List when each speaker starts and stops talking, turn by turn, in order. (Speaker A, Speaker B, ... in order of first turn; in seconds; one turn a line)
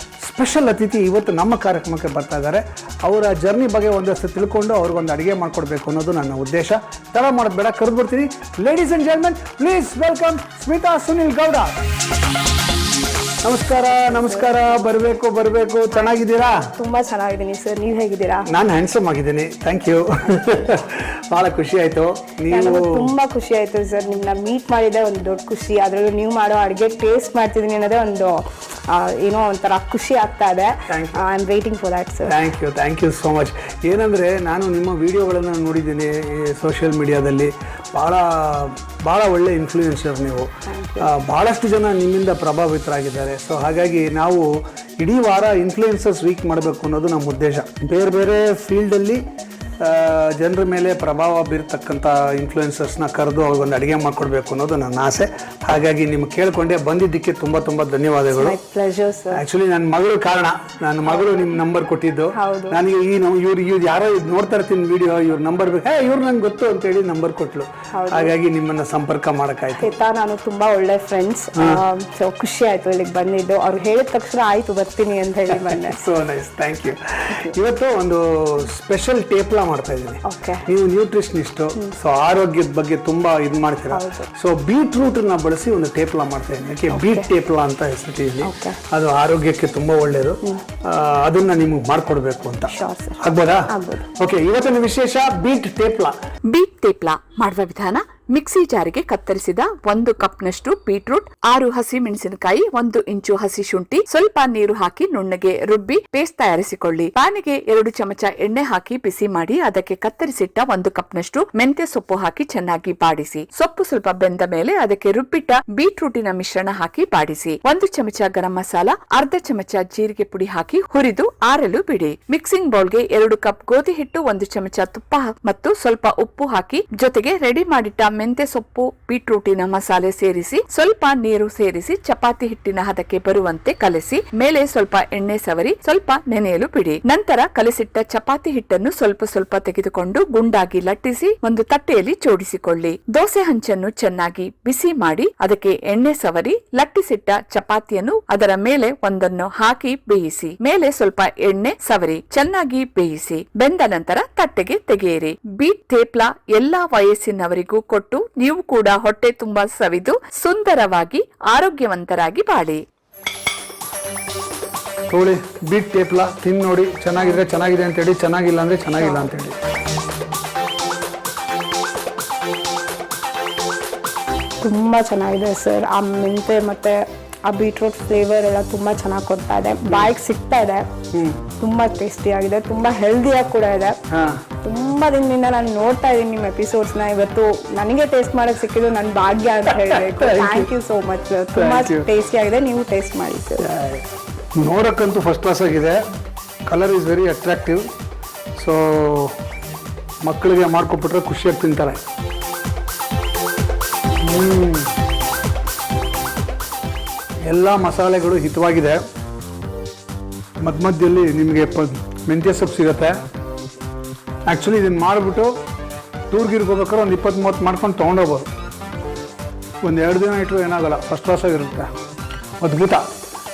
Speaker A: 0.2-11.7
Speaker A: 13.4-16.7
Speaker B: 13.8-14.9
Speaker B: 15.9-18.5
Speaker A: 18.5-23.1
Speaker B: 22.5-32.4
Speaker A: 30.9-31.2
Speaker A: 32.3-40.5
Speaker B: 40.7-41.1
Speaker A: 41.0-44.5
Speaker A: 45.0-49.2
Speaker A: 49.8-58.6
Speaker B: 58.3-59.4
Speaker A: 59.3-69.9
Speaker B: 62.3-62.8
Speaker B: 67.9-68.3
Speaker B: 69.8-76.0
Speaker A: 75.5-96.2
Speaker B: 80.2-80.7
Speaker B: 83.9-84.3
Speaker B: 86.9-87.3
Speaker B: 88.4-88.8
Speaker B: 92.7-94.0
Speaker C: 96.5-162.8
Speaker A: 165.1-169.6
Speaker B: 169.0-169.3
Speaker B: 174.6-180.9
Speaker A: 181.1-181.4
Speaker B: 181.6-184.0
Speaker A: 184.1-184.4
Speaker B: 184.6-193.7
Speaker A: 189.7-190.7
Speaker A: 191.5-192.1
Speaker A: 193.6-196.0
Speaker A: 196.7-197.9
Speaker A: 198.6-199.3
Speaker A: 200.2-202.0
Speaker A: 204.2-204.9
Speaker A: 207.5-209.0
Speaker A: 210.6-213.2
Speaker A: 214.5-215.6
Speaker A: 216.3-218.5
Speaker A: 219.8-221.9
Speaker A: 222.6-223.0